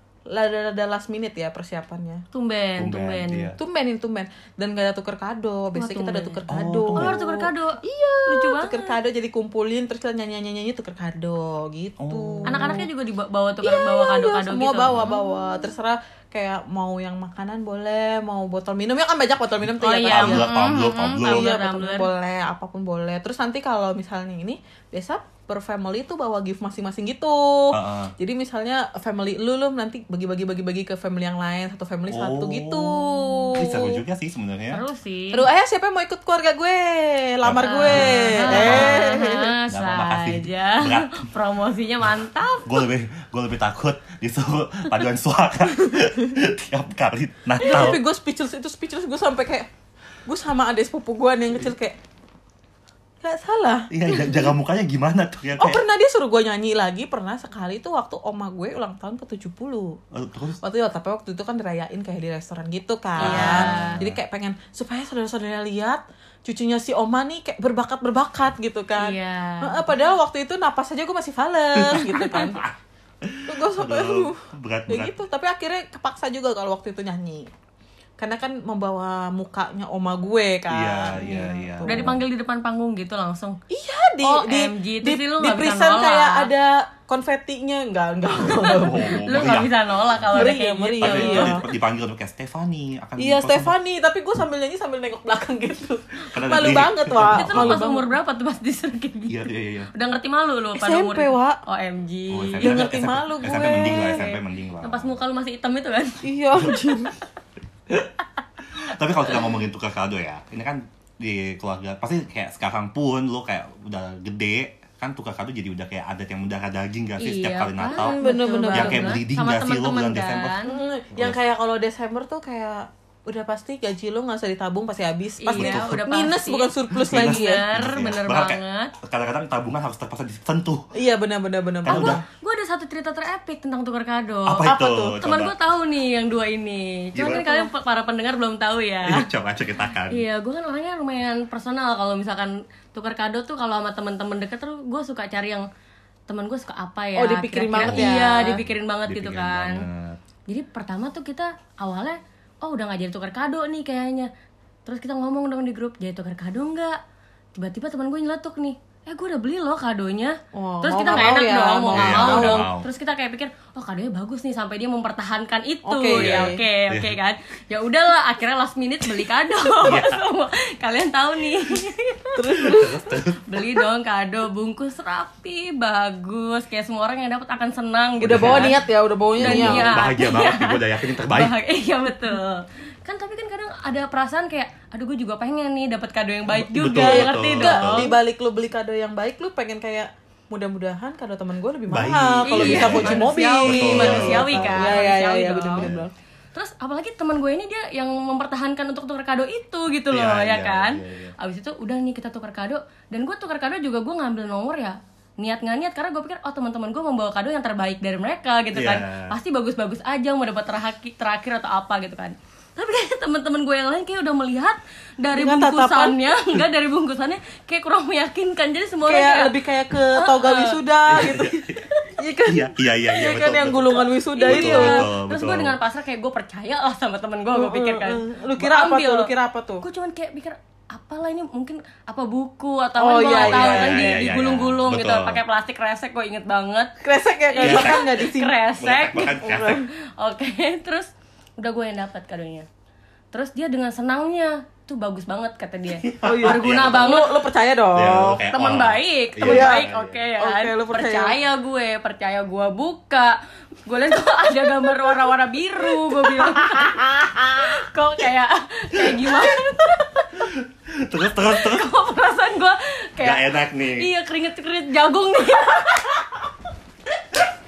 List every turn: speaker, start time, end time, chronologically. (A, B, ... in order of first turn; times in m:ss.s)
0:00.3-0:02.2 A
0:02.3-0:03.6 B
0:02.8-0:03.6 C
0:03.6-0:12.9 A
0:05.8-0:06.4 B
0:06.5-0:07.2 C
0:06.9-0:09.0 B
0:12.0-0:12.8 C
0:12.5-0:15.4 B
0:13.6-0:20.6 A
0:14.9-0:15.1 C
0:19.8-0:22.1 B
0:20.1-0:21.5 C
0:21.2-0:34.0 A
0:27.7-0:28.1 C
0:32.1-0:34.8 C
0:34.7-0:35.5 B
0:35.3-0:39.5 A
0:37.4-0:41.3 C
0:37.6-0:42.8 B
0:42.6-0:48.0 C
0:46.0-0:46.3 A
0:47.6-0:49.7 A
0:50.3-0:52.0 A
0:53.2-0:54.3 A
0:53.9-0:55.8 C
0:55.6-1:00.0 A
1:00.1-1:00.6 C
1:00.6-1:12.6 A
1:03.2-1:04.2 C
1:03.2-1:04.0 B
1:09.0-1:09.8 B
1:11.8-1:15.2 C
1:13.5-1:17.5 A
1:18.2-1:22.1 A
1:20.7-1:22.2 C
1:21.2-1:23.6 B
1:23.7-1:29.2 A
1:24.2-1:26.5 B
1:28.4-1:33.8 C
1:28.4-1:31.6 B
1:30.3-1:31.7 A
1:33.2-1:38.1 A
1:36.3-1:37.8 C
1:37.2-1:42.9 B
1:39.3-1:39.9 C
1:40.8-1:41.6 A
1:42.3-1:45.2 C
1:42.6-1:44.3 A
1:44.0-1:46.3 B
1:46.2-1:47.2 A
1:48.7-1:58.2 C
1:57.2-2:00.8 B
1:57.9-1:59.2 A
1:58.7-2:00.6 C
2:00.7-2:07.7 A
2:05.4-2:08.9 B
2:05.5-2:06.0 C
2:06.9-2:10.9 C
2:10.9-2:12.2 A
2:11.8-2:12.2 C
2:11.9-2:19.3 B
2:14.5-2:15.6 C
2:14.6-2:15.2 A
2:17.2-2:17.7 C
2:19.0-2:20.2 C
2:20.1-2:25.7 B
2:26.3-2:29.8 B
2:27.2-2:28.6 A
2:27.8-2:30.2 C
2:30.5-2:34.3 B
2:34.9-2:37.0 B
2:37.6-2:52.9 B
2:40.5-2:42.7 A
2:41.1-2:42.9 C
2:45.9-2:46.6 A
2:46.1-2:47.2 C
2:49.8-2:50.2 C
2:52.4-2:53.1 A
2:52.5-2:53.4 C
2:53.4-2:58.8 B
2:58.2-2:58.9 C
2:58.3-2:59.9 A
2:59.4-3:01.6 C
2:59.4-3:08.1 B
3:06.5-3:08.1 C
3:06.9-3:16.1 A
3:11.9-3:15.0 C
3:12.5-3:15.9 B
3:15.8-3:16.1 C
3:16.6-3:39.5 B
3:20.1-3:21.3 C
3:28.7-3:29.4 C
3:35.3-3:36.2 A
3:39.1-3:45.1 A
3:40.2-3:40.8 B
3:41.1-3:41.8 C
3:42.4-3:45.8 C
3:44.4-3:56.9 B
3:47.5-3:49.8 A
3:53.0-3:54.2 A
3:53.3-3:55.4 C
3:57.0-3:58.6 A
3:57.5-4:02.7 B
3:57.6-3:58.1 C
3:58.8-3:59.8 C
3:59.2-3:59.9 A
4:03.3-4:07.4 B
4:05.9-4:07.2 C
4:06.2-4:08.4 A
4:07.9-4:10.2 C
4:08.5-4:20.4 B
4:09.4-4:11.4 A
4:16.2-4:17.8 A
4:20.4-4:21.9 C
4:21.4-4:26.5 B
4:23.2-4:24.1 C